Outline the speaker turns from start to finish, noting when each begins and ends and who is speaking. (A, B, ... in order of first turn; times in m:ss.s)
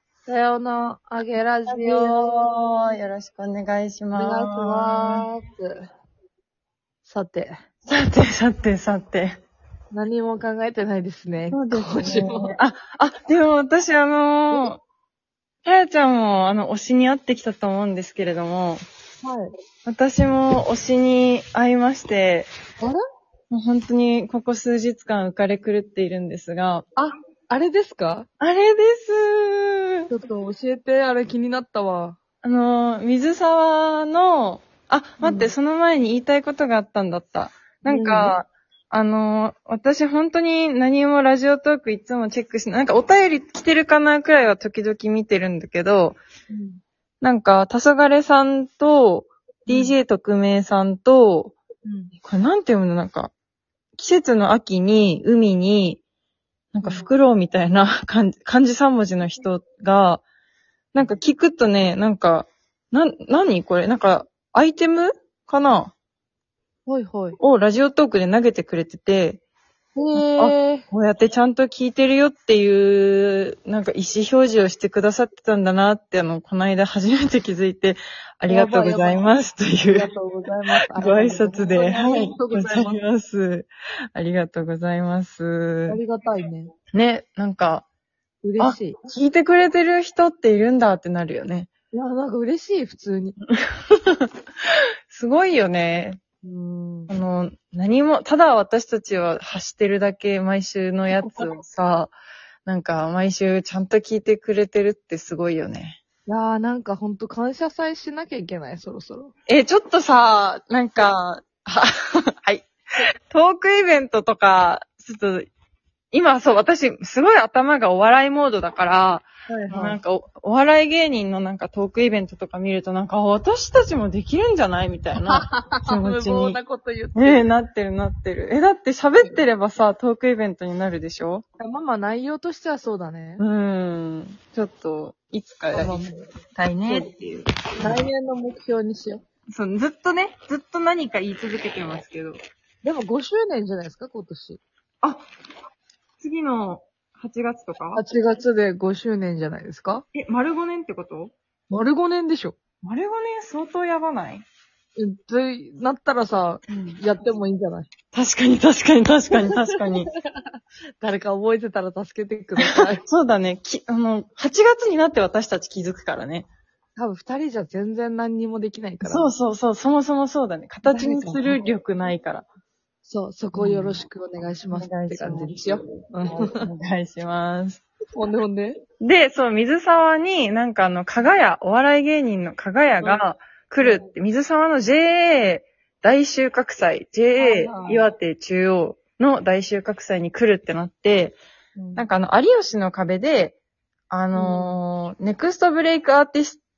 0:00.2-0:02.5 A
0:01.7-0:05.3 B
0:04.1-0:05.9 A
0:07.0-0:07.6 A
0:07.9-0:09.4 B
0:09.9-0:12.5 A
0:11.5-0:14.8 B
0:15.6-0:18.8 B
0:19.2-0:19.5 A
0:19.8-0:22.5 B
0:23.5-0:26.8 B
0:27.0-0:28.3 A
0:28.4-0:30.1 B
0:30.1-0:32.2 A
0:32.4-0:46.2 B
0:35.2-0:35.5 A
0:37.8-0:38.4 A
0:46.5-0:46.8 A
0:47.2-0:51.6 B
0:49.7-0:50.0 A
0:51.8-0:52.1 A
0:52.2-0:53.3 B
0:54.0-0:56.0 B
0:56.7-1:00.2 B
0:56.8-0:57.1 A
1:00.9-1:05.9 B
1:06.9-1:07.4 A
1:07.4-1:09.4 B
1:10.0-1:10.8 A
1:10.2-1:20.1 B
1:18.5-1:19.2 A
1:19.9-1:23.0 A
1:20.9-1:26.0 B
1:25.9-1:26.7 A
1:26.9-1:27.8 B
1:28.4-1:29.0 A
1:28.6-1:31.7 B
1:31.9-1:33.4 A
1:33.9-1:34.3 B
1:35.1-1:36.2 B
1:36.4-1:37.1 A
1:37.1-1:42.1 B
1:41.2-1:41.5 A
1:42.6-1:46.0 B
1:46.3-1:49.3 A
1:49.5-1:52.7 B
1:53.3-1:55.5 B
1:56.1-2:06.6 B
1:59.5-2:00.0 A
2:05.2-2:07.4 A
2:07.1-2:11.4 B
2:11.6-2:13.4 A
2:13.4-2:18.1 B
2:15.7-2:16.3 A
2:17.8-2:19.2 A
2:19.5-2:22.4 B
2:22.8-2:24.6 A
2:26.2-2:28.0 B
2:27.9-2:30.0 A
2:30.1-2:31.3 B
2:31.7-2:32.5 A
2:32.8-2:34.4 B
2:35.0-2:37.9 A
2:36.7-2:37.0 B
2:38.1-2:40.1 B
2:41.0-2:43.0 A
2:42.6-2:46.5 B
2:47.0-2:49.3 A
2:49.0-2:52.4 B
2:50.8-2:51.6 A
2:53.0-2:56.7 A
2:53.5-2:54.0 B
2:54.7-2:57.8 B
2:58.1-2:58.8 A
2:59.0-3:11.4 B
3:03.8-3:04.1 A
3:07.4-3:08.0 A
3:11.8-3:12.1 A
3:12.0-3:13.6 B
3:14.1-3:16.6 B
3:14.3-3:14.7 A